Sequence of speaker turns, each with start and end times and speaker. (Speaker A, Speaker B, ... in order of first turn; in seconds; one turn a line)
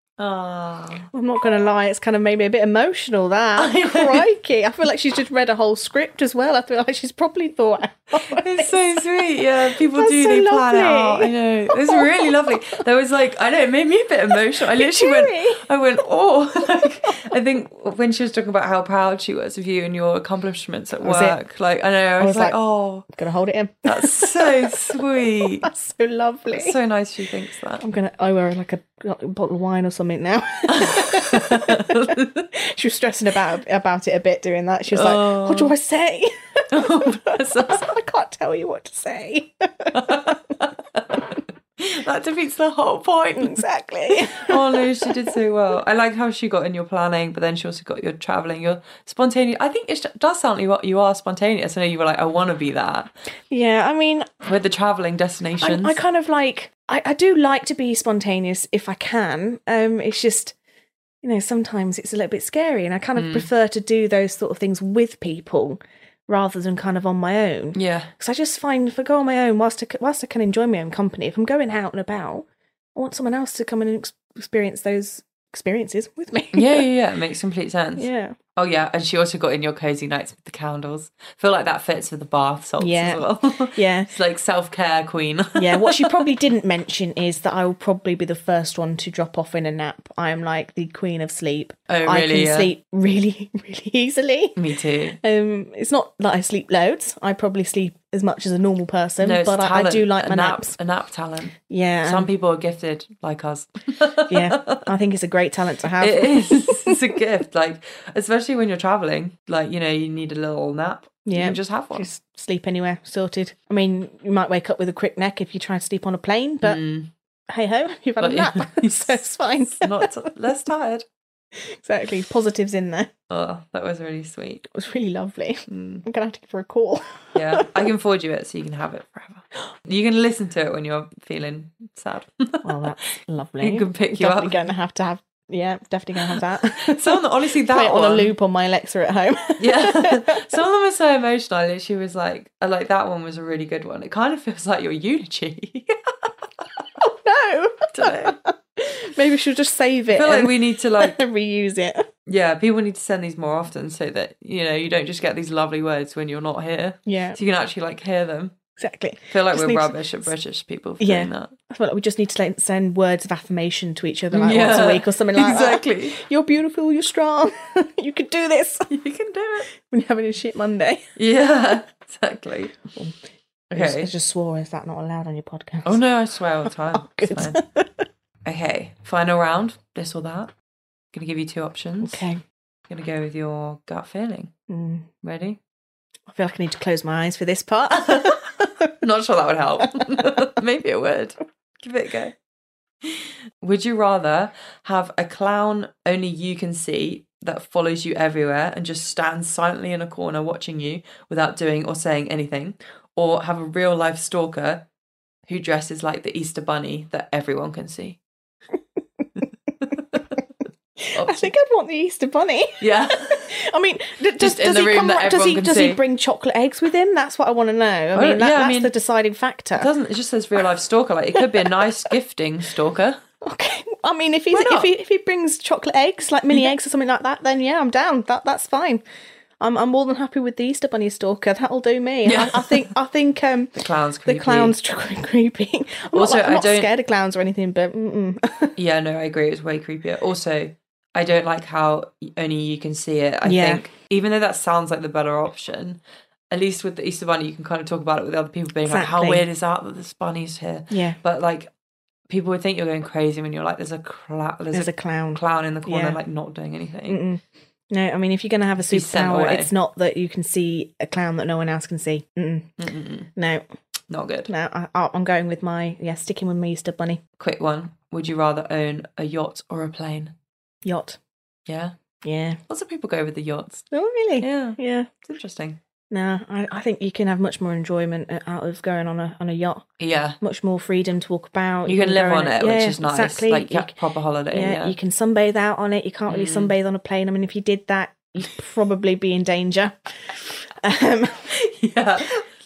Speaker A: 0.2-1.1
Speaker B: 1.1-9.2
Speaker A: 3.6-4.2
Speaker A: 8.3-23.1
Speaker B: 9.9-12.3
Speaker B: 14.6-15.7
Speaker B: 21.0-21.4
Speaker B: 22.2-22.6
Speaker B: 23.1-26.8
Speaker A: 23.9-25.7
Speaker A: 26.5-27.8
Speaker B: 27.8-40.5
Speaker A: 30.7-32.5
Speaker A: 34.9-35.7
Speaker A: 36.7-37.9
Speaker A: 39.9-41.2
Speaker A: 41.8-53.1
Speaker B: 43.4-45.1
Speaker B: 53.5-54.3
Speaker A: 54.4-56.0
Speaker B: 55.6-60.5
Speaker B: 61.2-76.8
Speaker A: 63.1-63.5
Speaker A: 67.7-68.1
Speaker A: 76.5-86.4
Speaker B: 78.0-78.4
Speaker B: 82.8-84.1
Speaker B: 85.5-94.6
Speaker A: 91.9-92.7
Speaker A: 94.5-95.2
Speaker B: 95.2-100.7
Speaker A: 99.2-104.8
Speaker B: 101.7-102.3
Speaker B: 104.3-107.0
Speaker A: 106.0-112.1
Speaker B: 111.2-116.8
Speaker A: 116.6-117.1
Speaker B: 117.5-120.1
Speaker A: 118.2-121.0
Speaker B: 121.5-123.1
Speaker A: 123.3-124.6
Speaker B: 124.7-127.7
Speaker A: 125.7-126.0
Speaker A: 127.3-132.9
Speaker B: 132.6-140.4
Speaker A: 133.6-134.6
Speaker A: 136.3-138.3
Speaker A: 139.6-146.6
Speaker B: 147.0-152.1
Speaker A: 147.9-148.3
Speaker A: 150.1-151.2
Speaker A: 152.2-158.5
Speaker B: 157.1-157.4
Speaker B: 158.8-160.3
Speaker A: 159.3-161.5
Speaker B: 161.0-168.9
Speaker A: 164.3-166.2
Speaker A: 168.9-169.7
Speaker B: 169.7-171.1
Speaker A: 171.2-172.8
Speaker A: 173.7-174.1
Speaker B: 173.7-176.0
Speaker A: 175.8-177.6
Speaker B: 176.9-177.9
Speaker A: 178.4-180.5
Speaker A: 181.1-182.2
Speaker B: 182.0-182.4
Speaker A: 182.9-184.5
Speaker B: 184.7-185.1
Speaker A: 185.2-185.6
Speaker B: 186.3-188.9
Speaker A: 188.0-192.3
Speaker A: 193.0-204.8
Speaker A: 205.5-208.2
Speaker A: 209.9-210.2
Speaker B: 211.0-219.9
Speaker A: 211.1-211.5
Speaker A: 212.8-213.6
Speaker A: 214.4-216.0
Speaker A: 218.1-218.9
Speaker A: 219.8-223.2
Speaker B: 221.4-221.7
Speaker B: 223.4-229.0
Speaker A: 224.5-224.9
Speaker B: 229.6-238.7
Speaker A: 232.2-232.9
Speaker A: 233.8-234.7
Speaker A: 236.1-236.9
Speaker A: 238.8-246.0
Speaker B: 243.4-243.9
Speaker A: 246.5-251.7
Speaker B: 248.8-249.4
Speaker B: 250.9-251.2
Speaker A: 252.3-257.2
Speaker B: 254.7-256.2
Speaker B: 257.1-262.7
Speaker A: 258.8-259.7
Speaker A: 262.8-263.3
Speaker B: 263.4-263.6
Speaker A: 264.1-264.5
Speaker B: 264.5-267.2
Speaker A: 267.4-270.3
Speaker B: 270.8-271.2
Speaker A: 271.7-271.9
Speaker B: 272.2-272.6
Speaker A: 272.7-273.8
Speaker B: 273.9-275.1
Speaker A: 274.4-275.8
Speaker B: 276.1-279.8
Speaker A: 280.0-280.4
Speaker B: 280.4-283.9
Speaker A: 281.9-284.9
Speaker B: 284.5-291.5
Speaker A: 286.3-286.7
Speaker A: 291.5-292.4